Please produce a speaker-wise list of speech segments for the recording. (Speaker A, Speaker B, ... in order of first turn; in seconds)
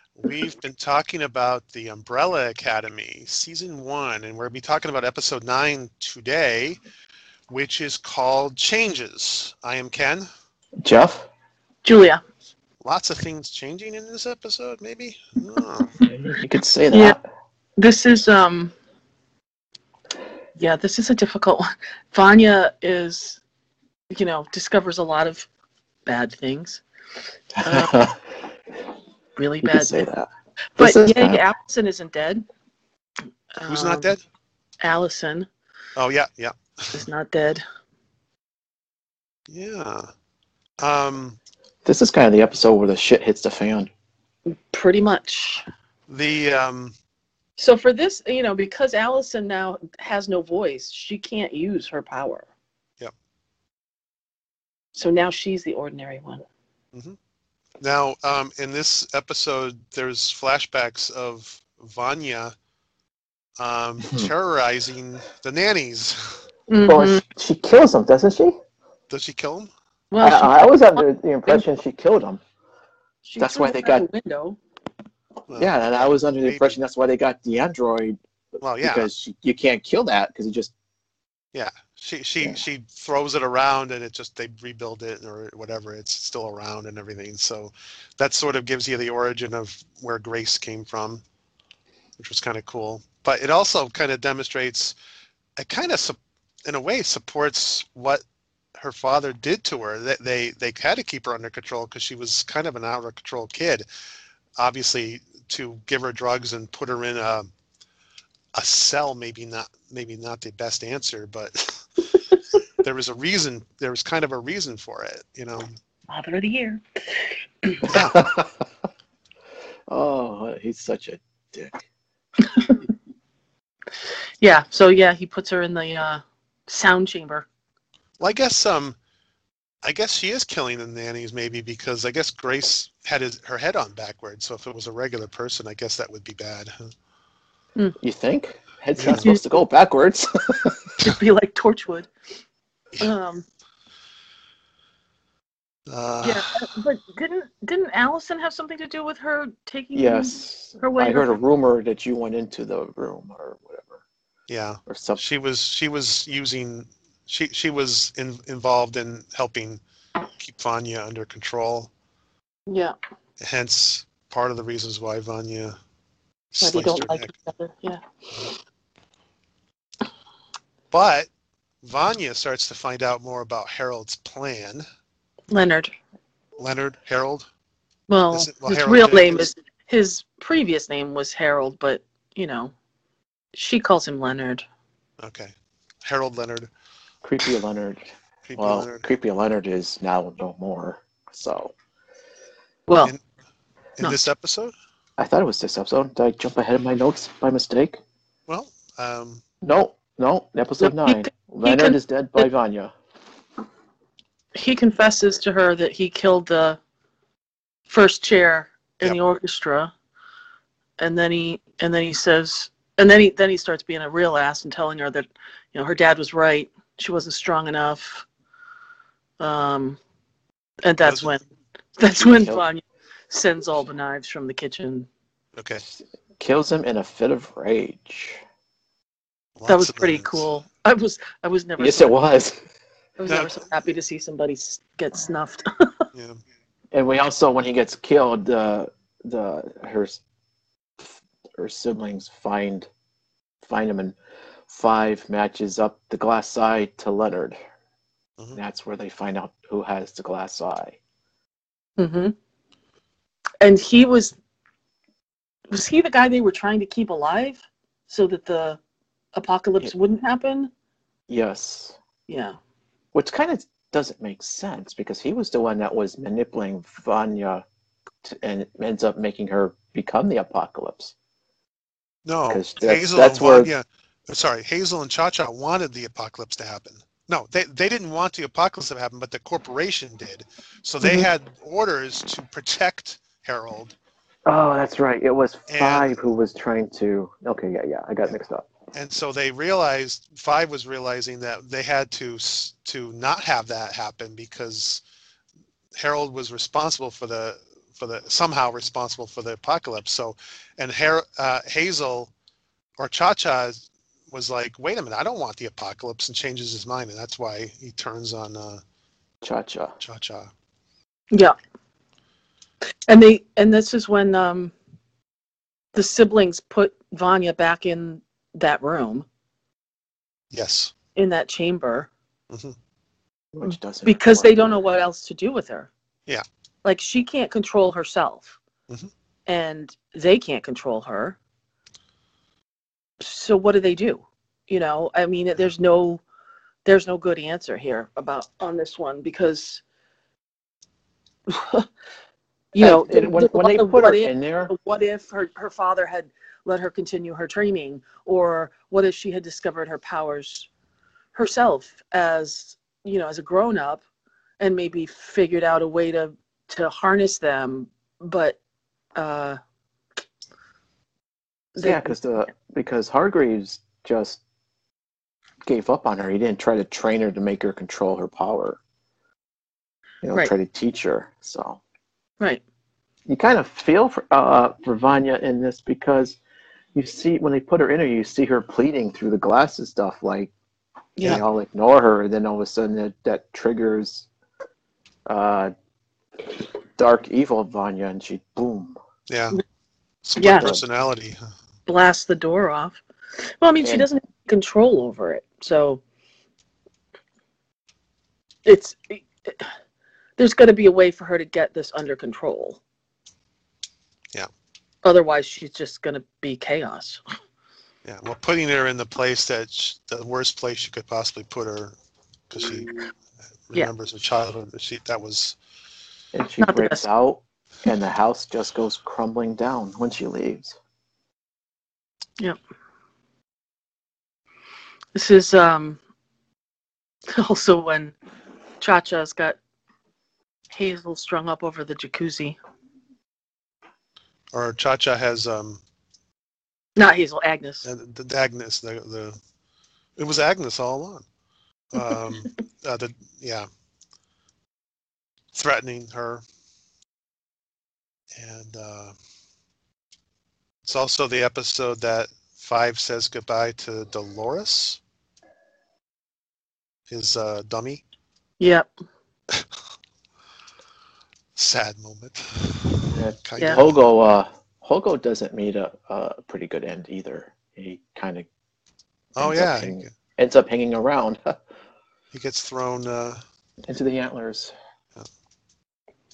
Speaker A: 0.2-6.8, 7.5-10.3, 12.8-16.0, 33.6-34.2, 36.0-37.0, 39.5-40.1, 40.8-41.4, 46.1-46.9, 57.8-62.5, 63.6-66.4, 69.1-69.7, 75.5-76.8, 78.6-79.1, 81.5-91.2, 92.2-95.0, 95.6-98.2, 98.8-103.8, 104.6-107.5, 108.5-112.2, 112.8-115.7, 117.8-118.2, 128.2-129.0, 129.8-136.7, 139.0-139.2, 145.9-146.5, 154.5-159.8, 160.3-161.9, 163.4-165.8, 166.5-167.3, 170.9-171.3, 171.8-174.8, 176.6-177.5, 178.3-179.5, 185.2-186.7, 188.4-189.1, 194.0-194.7, 198.5-199.4, 209.0-209.3, 221.0-221.4, 225.6-225.8, 229.6-230.5, 233.3-233.6, 236.1-236.4, 272.2-283.9, 285.7-286.2, 288.9-295.0, 295.9-302.3, 303.0-308.8, 310.0-310.5, 320.5-320.9, 389.3-389.6, 390.2-391.4, 408.0-411.9, 412.5-412.9, 413.7-415.6, 434.5-435.8, 437.8-439.4, 440.2-441.2, 441.9-443.7, 445.5-446.4, 448.4-449.1, 450.8-455.0, 457.1-458.0, 461.6-464.0, 469.4-470.1, 472.3-473.4
Speaker B: 10.8-11.2, 16.0-17.2, 27.6-28.2, 29.6-30.3, 30.8-31.4, 41.8-43.9, 66.8-68.5, 70.2-72.4, 73.4-74.1, 75.5-78.2, 78.8-80.7, 117.9-118.5, 119.9-121.8, 138.0-140.9, 149.9-154.0, 154.9-155.2, 187.2-188.1, 188.6-191.7, 195.2-198.0, 199.6-202.9, 222.2-222.6, 225.8-228.4, 231.8-232.6, 236.9-240.2, 241.0-242.9, 243.6-244.2, 244.7-247.6, 248.5-251.0, 261.3-261.9, 263.1-267.6, 268.2-271.1, 272.5-273.7, 281.0-281.3, 284.4-288.7, 309.4-309.9, 323.5-324.9, 342.8-344.7, 361.8-364.4, 365.6-368.8, 370.2-371.8, 373.3-376.4, 376.9-380.5, 381.2-384.3, 385.3-385.7, 387.0-388.9, 390.6-390.8, 416.3-420.8, 463.1-468.5, 469.4-471.5, 473.8-474.7
Speaker C: 11.8-12.2, 16.9-17.2, 17.8-18.7, 20.6-23.4, 24.1-25.5, 26.1-26.8, 27.6-27.9, 29.4-30.1, 30.8-32.4, 33.6-34.1, 34.8-35.5, 36.9-37.6, 44.5-45.6, 47.6-52.5, 54.9-56.4, 66.7-67.2, 70.1-71.6, 73.2-74.6, 116.1-117.8, 124.4-127.5, 139.1-139.4, 141.0-142.1, 143.0-143.4, 146.2-151.4, 162.7-162.9, 166.6-168.0, 175.5-175.9, 178.1-182.7, 183.5-184.6, 192.9-193.1, 200.8-202.5, 204.5-206.8, 207.9-209.9, 211.0-218.2, 219.4-220.0, 220.8-221.4, 222.0-225.1, 229.7-232.1, 233.2-235.6, 252.0-252.3, 253.6-254.3, 255.7-258.8, 259.3-260.7, 262.3-262.6, 313.1-314.7, 315.9-319.2, 321.1-322.1, 323.6-325.9, 326.8-328.6, 329.5-331.4, 333.2-336.2, 336.8-339.8, 341.5-341.9, 342.7-350.7, 351.3-354.0, 354.6-358.6, 359.1-359.6, 361.8-362.1, 381.2-381.4, 390.4-390.8, 391.9-393.0, 393.6-396.0, 398.6-399.7, 400.4-402.8, 405.0-407.2, 416.6-417.0, 425.1-426.0, 427.3-428.1, 428.8-429.6, 430.7-432.6, 437.0-437.8, 458.6-458.9